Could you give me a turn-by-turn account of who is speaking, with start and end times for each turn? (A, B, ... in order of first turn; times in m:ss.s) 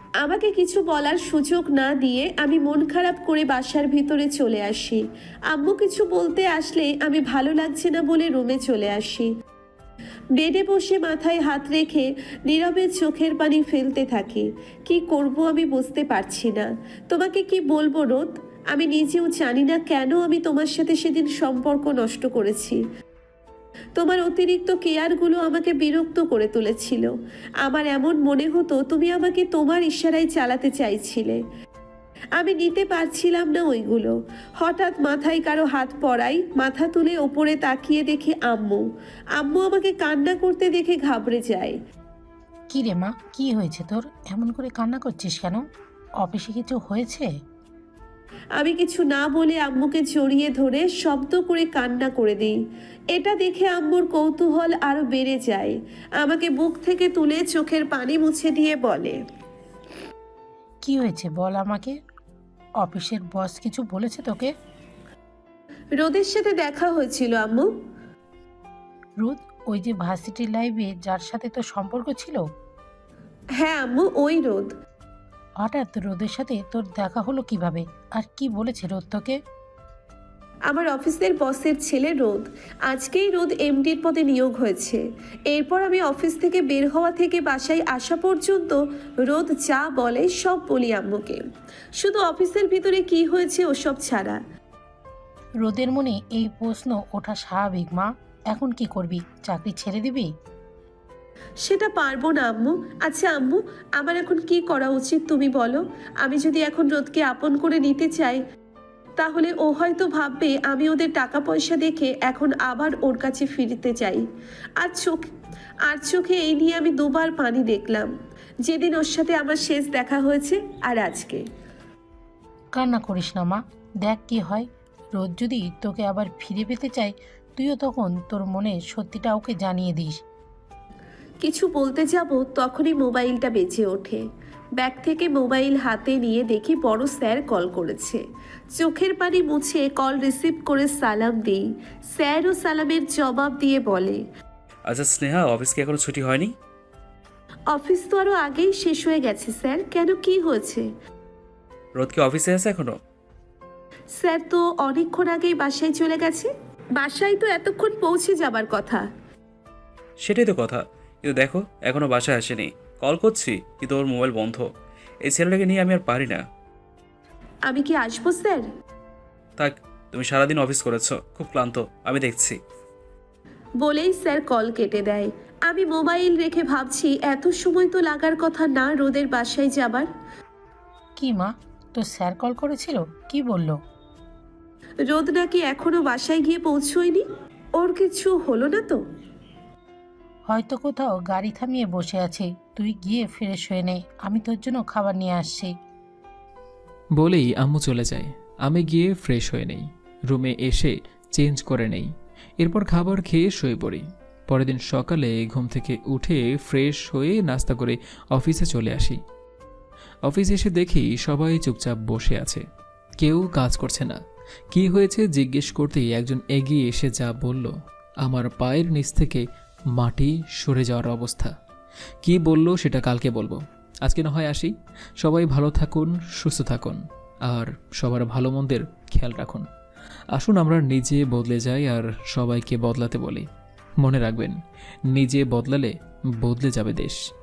0:00.2-0:09.3 A
0:10.4-0:22.8 A
0:24.0-0:27.1 A
0:27.6-0:31.4 A
0:32.4-0:38.8 A
0:39.4-0:41.8 A
0:42.7-0:45.7 B
0:46.2-0:47.3 B
0:48.6-0:52.6 A
0:53.1-0:59.2 A
1:00.8-1:02.0 B
1:02.8-1:04.5 B
1:06.0-1:07.7 A
1:09.2-1:12.4 B
1:13.6-1:14.7 A
1:15.6-1:19.4 B
1:20.7-1:31.4 A
1:32.0-1:34.4 A
1:35.6-1:40.3 B
1:41.6-1:48.4 A
1:49.2-1:54.2 A
1:54.8-1:55.2 A
1:55.9-1:58.1 A
1:58.6-2:01.4 A
2:02.8-2:10.2 B
2:11.4-2:14.2 A
2:14.8-2:18.2 A
2:18.8-2:24.2 A
2:24.9-2:26.5 C
2:27.7-2:30.9 A
2:32.0-2:33.0 C
2:34.1-2:39.0 A
2:40.2-2:44.7 C
2:45.2-2:46.4 C
2:47.7-2:48.6 A
2:49.6-2:52.6 C
2:53.8-3:00.1 A
3:01.2-3:03.8 B
3:05.1-3:07.2 A
3:07.8-3:09.0 A
3:10.5-3:15.7 B
3:17.2-3:22.1 D
3:22.6-3:29.2 D
3:30.2-3:32.6 D
3:33.2-3:34.2 D
3:34.7-3:37.7 D
3:38.2-3:39.4 D
3:40.0-3:41.5 D
3:42.2-3:49.6 D
3:50.4-3:53.5 D
3:54.0-3:54.6 D
3:55.1-3:57.2 D